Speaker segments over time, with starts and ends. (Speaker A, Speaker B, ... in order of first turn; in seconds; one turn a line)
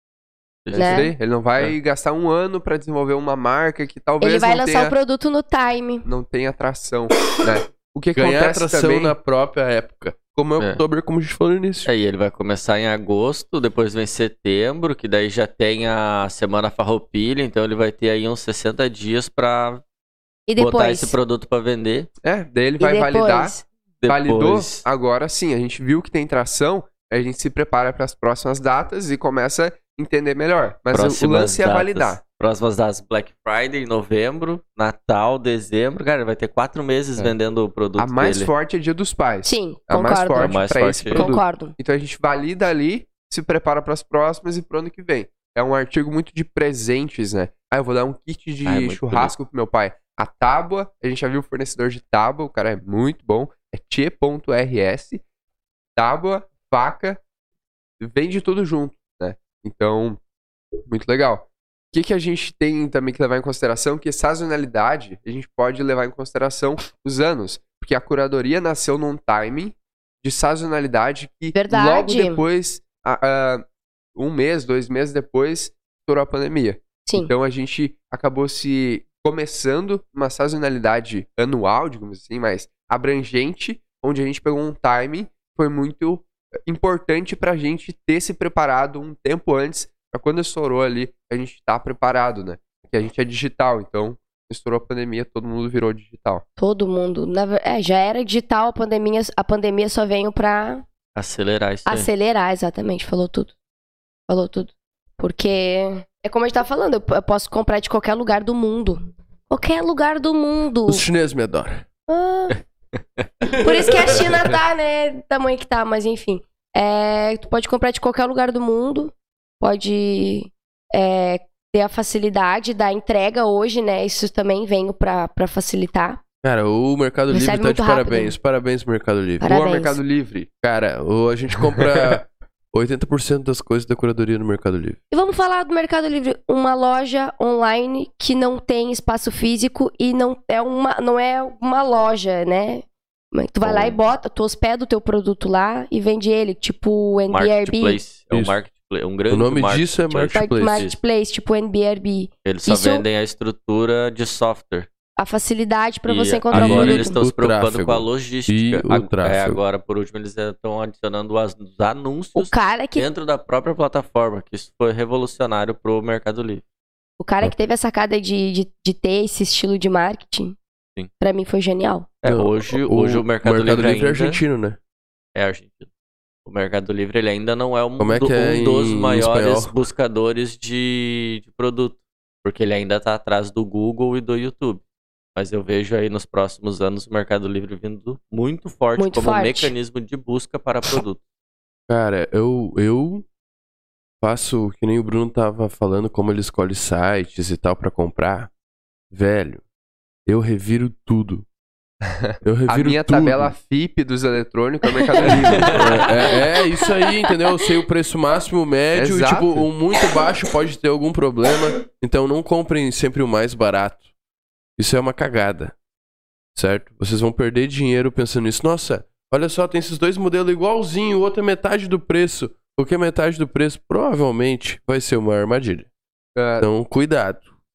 Speaker A: 0.7-1.7
Speaker B: 0.7-4.9
Speaker C: 0.7-1.1
Speaker C: 4.2-6.0
Speaker B: 6.0-9.2
Speaker D: 8.1-11.9
Speaker A: 11.8-19.8
Speaker C: 20.5-21.1
Speaker A: 20.6-22.1
Speaker B: 22.2-23.6
Speaker C: 22.8-23.6
Speaker A: 24.0-24.8
Speaker B: 24.1-32.2
Speaker A: 30.9-38.5
Speaker B: 38.0-55.2
Speaker C: 39.4-40.5
Speaker A: 40.3-41.3
Speaker C: 41.1-41.7
Speaker A: 48.6-49.3
Speaker B: 56.0-57.2
Speaker B: 58.0-60.2
Speaker B: 60.9-96.4
Speaker C: 71.5-72.4
Speaker C: 77.0-77.3
Speaker C: 96.6-100.8
Speaker A: 101.1-102.1
Speaker C: 101.8-103.5
Speaker C: 104.3-111.0
Speaker D: 110.9-111.8
Speaker C: 112.1-112.6
Speaker D: 113.4-114.3
Speaker C: 113.6-126.2
Speaker D: 126.4-129.4
Speaker C: 127.3-128.3
Speaker C: 129.4-130.0
Speaker B: 129.4-130.5
Speaker D: 130.6-135.0
Speaker B: 131.8-132.2
Speaker C: 135.1-148.0
Speaker A: 143.6-144.0
Speaker A: 147.3-151.0
Speaker D: 148.3-148.6
Speaker D: 149.3-150.8
Speaker C: 150.3-153.0
Speaker A: 152.4-154.9
Speaker C: 155.2-157.2
Speaker A: 156.1-166.6
Speaker D: 156.5-159.6
Speaker C: 162.3-163.1
Speaker C: 167.2-170.6
Speaker C: 171.2-172.1
Speaker A: 172.2-174.4
Speaker D: 172.2-174.8
Speaker A: 175.3-175.9
Speaker A: 176.4-184.8
Speaker D: 178.0-179.7
Speaker A: 185.3-191.2
Speaker C: 189.0-189.7
Speaker D: 191.9-193.2
Speaker D: 194.2-198.5
Speaker D: 199.1-199.6
Speaker D: 200.2-201.4
Speaker B: 202.0-206.1
Speaker D: 202.4-203.5
Speaker A: 205.5-205.8
Speaker D: 205.6-214.0
Speaker B: 208.9-209.7
Speaker D: 214.8-215.7
Speaker D: 216.5-225.9
Speaker B: 226.3-226.7
Speaker D: 226.6-227.4